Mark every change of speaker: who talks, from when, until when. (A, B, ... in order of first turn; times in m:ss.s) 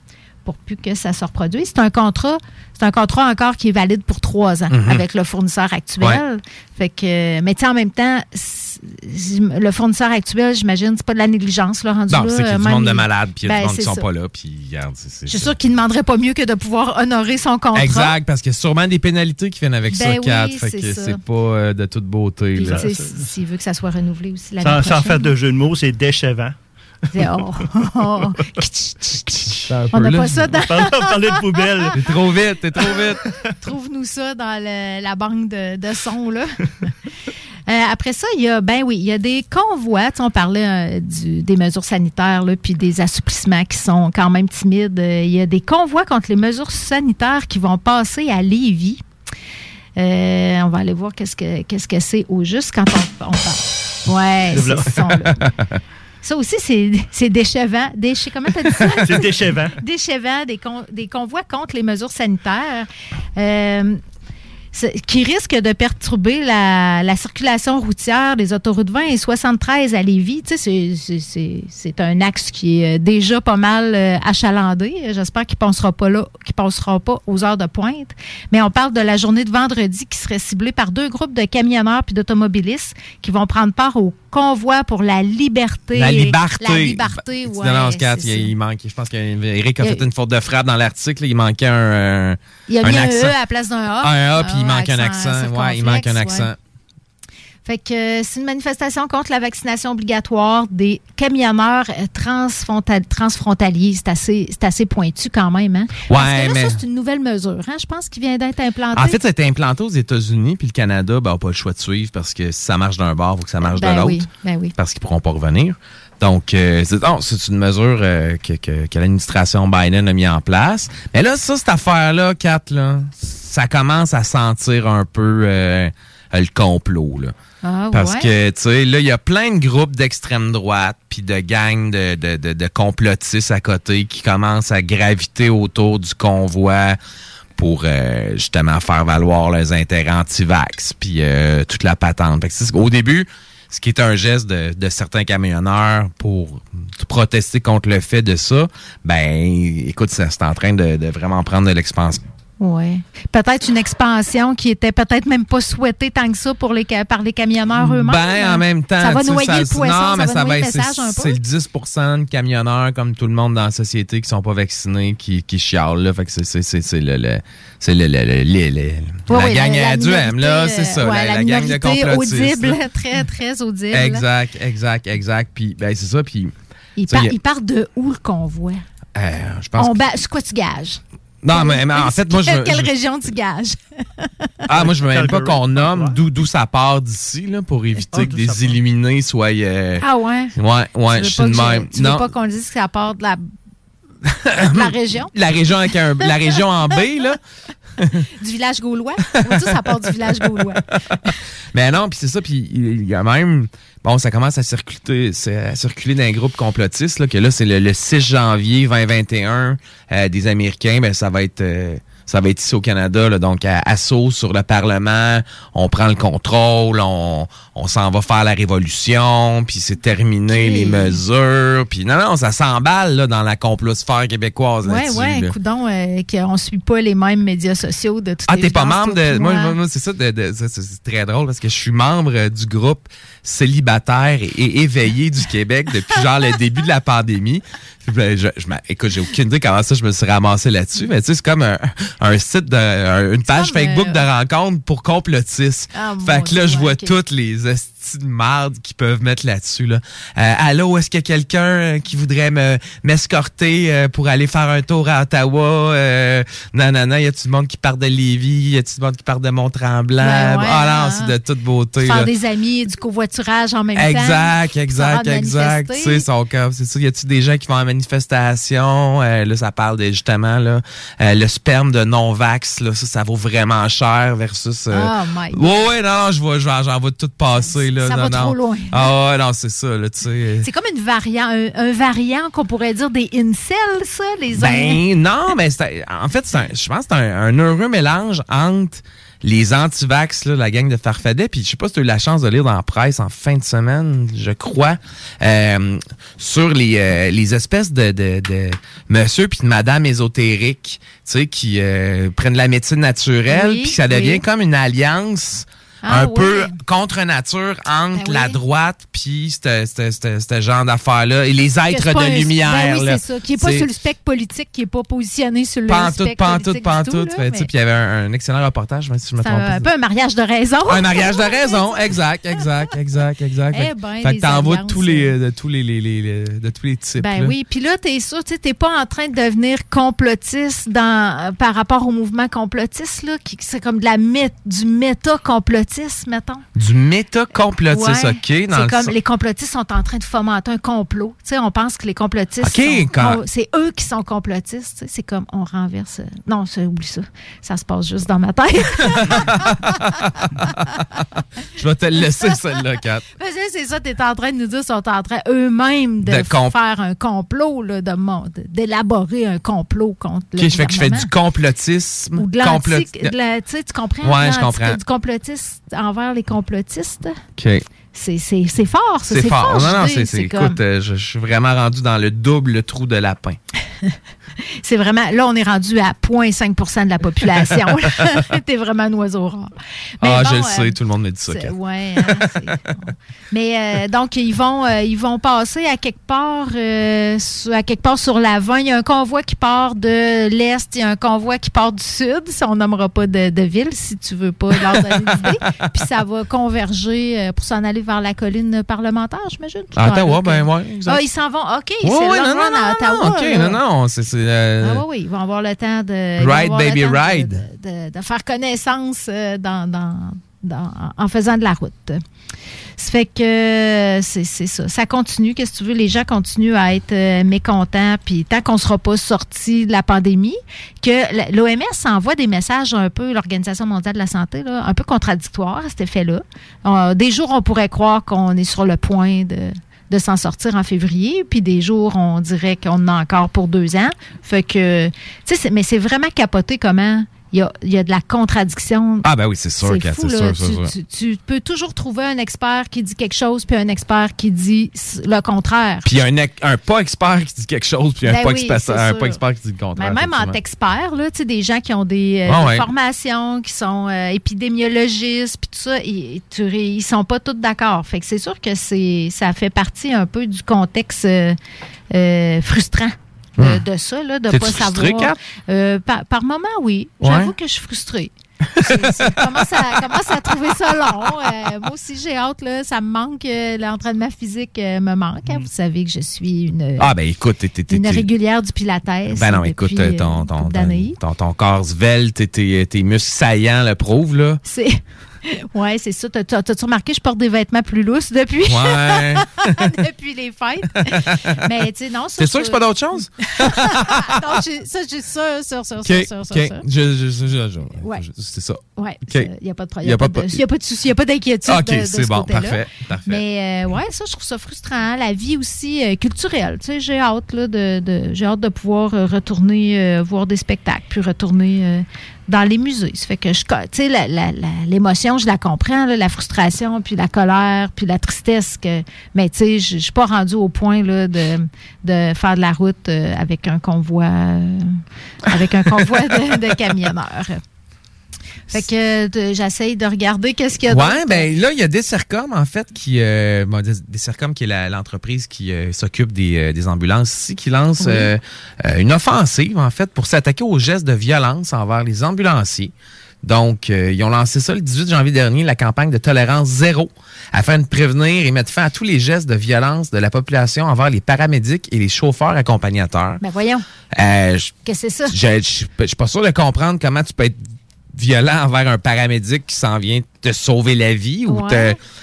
0:00.4-0:14.0 A
0:04.7-0:05.0 B
0:12.1-0:15.5 B
0:15.3-0:18.1 A
0:17.8-0:22.9 B
0:19.9-0:21.2 A
0:22.6-0:25.3 A
0:22.6-0:23.2 C
0:24.6-0:26.5 C
0:27.1-0:31.6 A
0:29.7-0:30.5 B
0:30.6-0:32.0 C
0:32.0-0:33.2 B
0:33.6-0:36.5 A
0:37.7-0:49.0 A
0:50.0-0:55.3 A
0:54.5-0:54.9 C
0:55.4-0:55.7 B
0:56.2-1:04.0 A
0:58.9-0:59.8 C
1:04.7-1:28.5 A
1:25.9-1:33.4 B
1:32.7-1:36.5 A
1:34.0-1:36.6 B
1:37.6-1:49.2 A
1:46.1-1:46.8 B
1:48.9-1:54.2 B
1:53.6-1:54.7 A
1:54.8-2:07.3 B
2:07.6-2:08.3 A
2:07.9-2:17.0 B
2:17.6-2:32.2 B
2:32.6-2:41.4 A
2:38.0-2:52.8 B
2:49.3-2:54.2 A
2:53.9-2:56.5 B
2:57.0-2:58.8 A
2:59.2-3:00.0 B
2:59.8-3:04.3 A
3:01.4-3:02.9 B
3:04.7-3:10.0 B
3:04.8-3:06.2 C
3:08.1-3:08.8 C
3:10.0-3:10.5 A
3:10.6-3:12.2 B
3:11.1-3:13.4 A
3:14.3-3:17.4 B
3:14.7-3:15.3 A
3:18.4-3:20.8 A
3:21.7-3:45.5 B
3:40.5-3:41.2 A
3:44.8-3:49.7 A
3:48.5-4:22.3 B
4:03.5-4:04.2 A
4:05.9-4:07.2 A
4:20.2-4:21.3 A
4:22.0-4:26.2 A
4:24.0-4:40.7 B
4:34.9-4:35.9 A
4:37.6-4:39.1 A
4:40.6-4:45.0 A
4:44.6-5:13.9 B
5:03.5-5:04.4 A
5:06.0-5:06.7 A
5:08.1-5:08.6 A
5:11.9-5:17.7 A
5:15.9-5:19.9 B
5:19.4-5:21.9 A
5:20.9-5:27.5 B
5:23.7-5:25.3 A
5:27.2-5:36.6 A
5:36.8-5:39.1 B
5:37.9-5:49.6 A
5:42.6-5:43.4 B
5:49.2-5:50.7 B
5:51.8-5:53.2 B
5:53.4-6:01.3 A
5:56.2-5:56.7 B
6:00.6-6:03.3 B
6:02.4-6:07.3 A
6:04.2-6:05.0 B
6:07.6-6:07.8 B
6:08.1-6:10.8 A
6:09.3-6:13.6 B
6:14.8-6:21.0 A
6:20.2-6:21.7 B
6:21.5-6:43.8 A
6:34.9-6:35.4 B
6:40.0-6:41.2 B
6:42.0-6:45.0 B
6:44.8-6:52.2 A
6:46.4-6:47.6 B
6:53.0-7:19.2 A
7:19.2-7:20.9 B
7:19.8-7:26.0 A
7:26.0-7:30.6 B
7:28.2-7:29.4 A
7:30.0-7:41.6 A
7:32.5-7:32.8 B
7:42.1-7:57.1 A
7:44.5-7:45.3 B
7:47.2-7:47.5 B
7:48.8-7:49.3 B
7:57.0-7:58.2 B
7:57.9-8:01.2 A
7:59.3-8:04.6 B
8:04.6-8:12.8 A
8:08.7-8:09.7 B
8:11.1-8:11.5 B
8:12.4-8:14.3 B
8:13.6-8:16.8 A
8:16.0-8:19.5 B
8:19.0-8:45.0 A
8:20.0-8:20.6 B
8:21.7-8:23.4 B
8:45.5-8:47.6 A
8:48.7-8:51.5 A
8:50.9-9:02.9 B
8:58.0-8:58.3 A
9:03.4-9:13.4 B
9:13.4-9:13.8 A
9:14.1-9:14.7 B
9:14.8-9:15.3 A
9:15.3-9:17.6 B
9:18.1-9:22.0 B
9:21.5-9:22.0 A